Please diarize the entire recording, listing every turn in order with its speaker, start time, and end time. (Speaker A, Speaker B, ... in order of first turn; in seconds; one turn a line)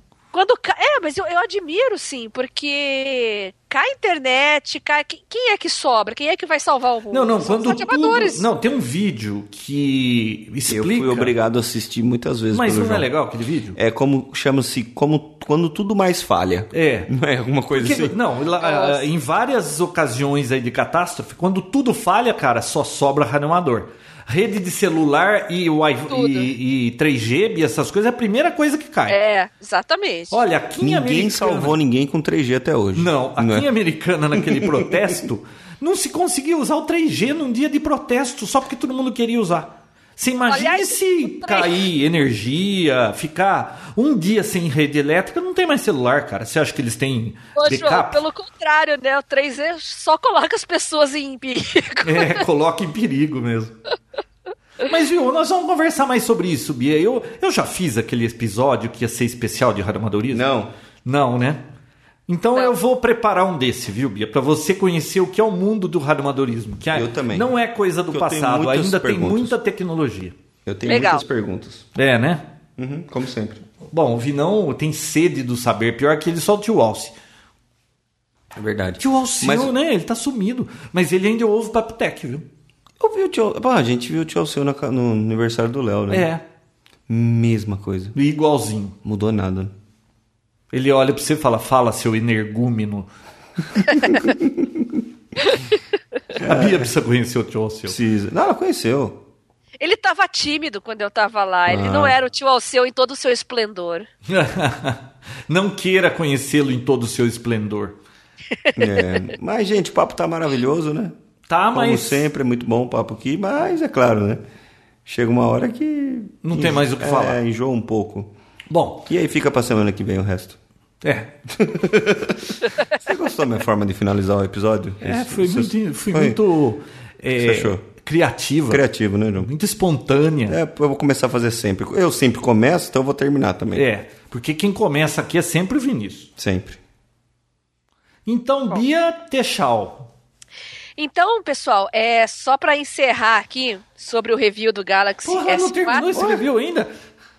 Speaker A: 0.3-8.5
Speaker B: 7.1-11.3
Speaker C: 10.7-13.1
Speaker B: 12.5-13.8
Speaker C: 13.8-18.2
Speaker B: 16.7-17.1
Speaker B: 17.7-29.2
Speaker A: 18.6-19.1
Speaker A: 26.1-26.5
Speaker A: 29.1-30.4
Speaker B: 30.3-31.8
Speaker C: 30.8-33.7
Speaker B: 33.0-48.2
Speaker C: 34.3-35.2
Speaker A: 40.5-41.8
Speaker A: 47.5-52.4
Speaker B: 52.0-53.8
Speaker B: 54.8-60.5
Speaker C: 60.3-60.7
Speaker B: 61.0-61.6
Speaker B: 62.3-70.3
Speaker C: 66.9-67.5
Speaker C: 68.1-69.5
Speaker C: 70.7-71.9
Speaker A: 70.8-71.2
Speaker B: 72.0-72.5
Speaker C: 72.8-73.6
Speaker B: 73.9-77.1
Speaker C: 78.5-79.7
Speaker B: 79.0-82.5
Speaker C: 83.0-86.3
Speaker B: 86.1-86.4
Speaker C: 87.1-88.2
Speaker B: 88.1-89.0
Speaker C: 89.0-89.7
Speaker B: 90.7-93.1
Speaker C: 94.0-95.0
Speaker B: 96.3-98.0
Speaker C: 96.4-96.9
Speaker C: 97.9-99.2
Speaker A: 99.8-104.1
Speaker C: 101.7-102.2
Speaker B: 104.3-108.0
Speaker A: 108.7-109.2
Speaker C: 108.8-111.1
Speaker B: 111.5-112.3
Speaker C: 111.7-114.4
Speaker C: 115.0-118.3
Speaker B: 116.4-117.4
Speaker B: 118.7-119.0
Speaker C: 119.0-120.6
Speaker B: 121.0-121.4
Speaker C: 121.5-126.4
Speaker B: 125.0-128.8
Speaker C: 127.3-127.8
Speaker C: 128.7-129.5
Speaker B: 129.4-130.6
Speaker C: 130.5-133.9
Speaker B: 133.7-136.3
Speaker C: 136.4-136.8
Speaker B: 138.3-140.1
Speaker A: 141.0-146.3
Speaker B: 145.2-146.9
Speaker C: 146.2-146.4